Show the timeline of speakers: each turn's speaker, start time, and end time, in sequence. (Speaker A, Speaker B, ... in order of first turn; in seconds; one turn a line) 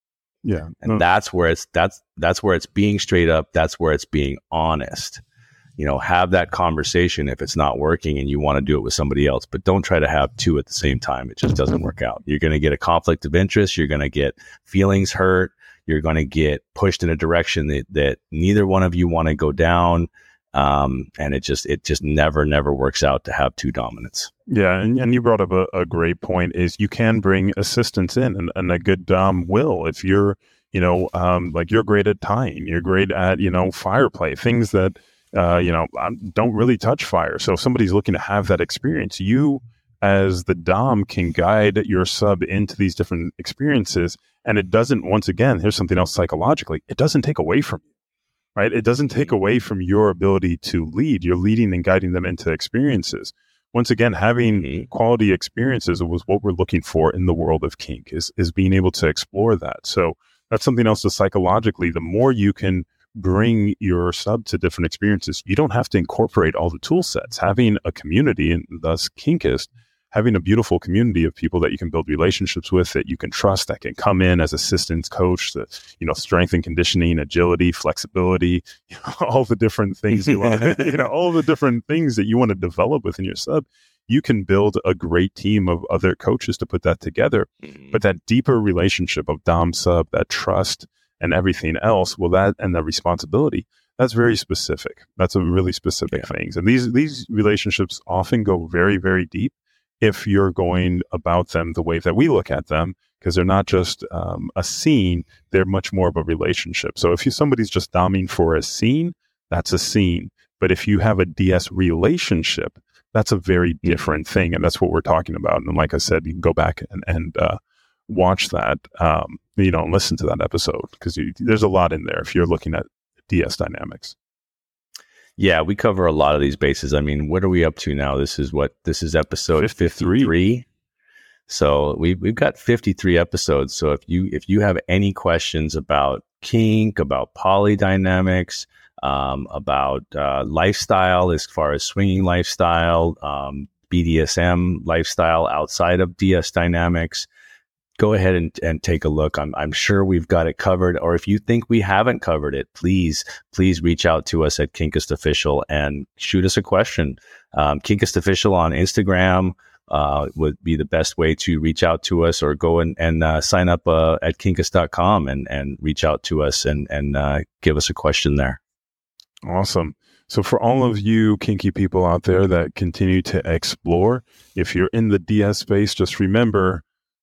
Speaker A: 0.4-1.0
Speaker B: 0.8-5.2
Speaker B: 5.8-24.3
Speaker A: 24.5-47.8
Speaker A: 48.5-124.2
Speaker B: 49.1-49.3
Speaker B: 54.5-54.9
Speaker B: 113.8-114.1
Speaker B: 125.4-130.7
Speaker A: 129.5-130.3
Speaker B: 131.5-147.3
Speaker B: 148.0-168.6
Speaker A: 169.4-176.8